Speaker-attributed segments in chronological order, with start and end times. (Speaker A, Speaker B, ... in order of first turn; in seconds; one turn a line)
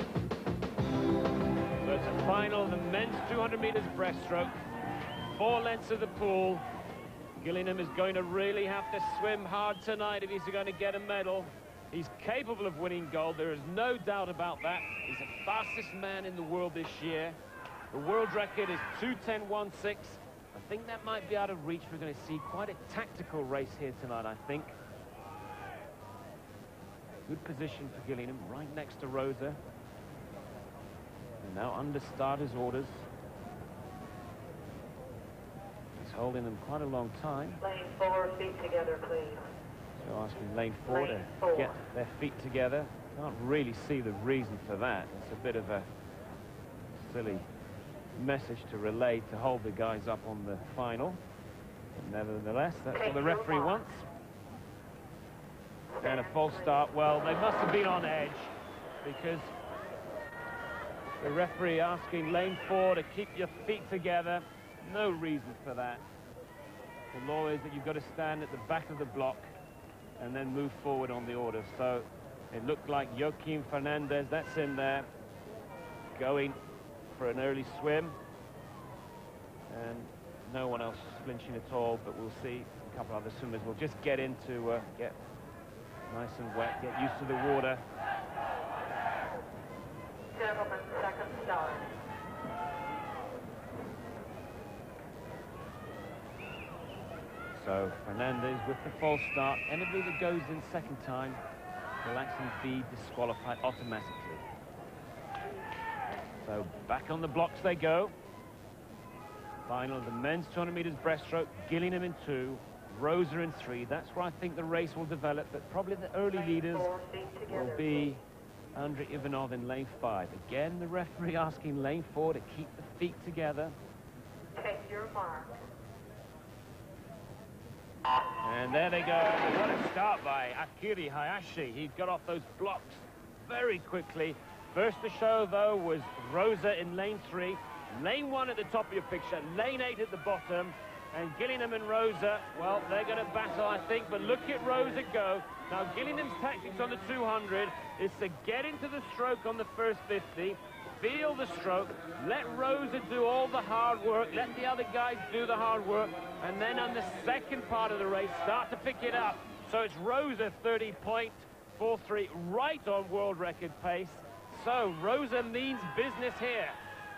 Speaker A: 1.8-4.6
Speaker A: 5.3-6.6
Speaker A: 7.4-17.4
Speaker A: 17.9-24.8
Speaker A: 27.3-29.6
Speaker A: 31.4-33.0
Speaker A: 36.0-37.6
Speaker B: 37.6-39.4
Speaker A: 40.0-45.9
Speaker B: 41.2-41.6
Speaker A: 47.0-47.5
Speaker A: 48.2-51.2
Speaker A: 52.0-54.0
Speaker A: 56.0-59.5
Speaker A: 61.2-66.0
Speaker A: 67.1-69.5
Speaker A: 70.2-75.1
Speaker A: 76.1-76.6
Speaker A: 77.1-78.1
Speaker A: 79.7-85.2
Speaker A: 86.1-87.8
Speaker B: 90.3-91.9
Speaker A: 97.5-101.4
Speaker A: 102.0-104.4
Speaker A: 106.4-108.1
Speaker A: 109.7-118.2
Speaker B: 116.8-117.6
Speaker A: 118.8-123.8
Speaker B: 124.5-125.6
Speaker A: 128.4-166.8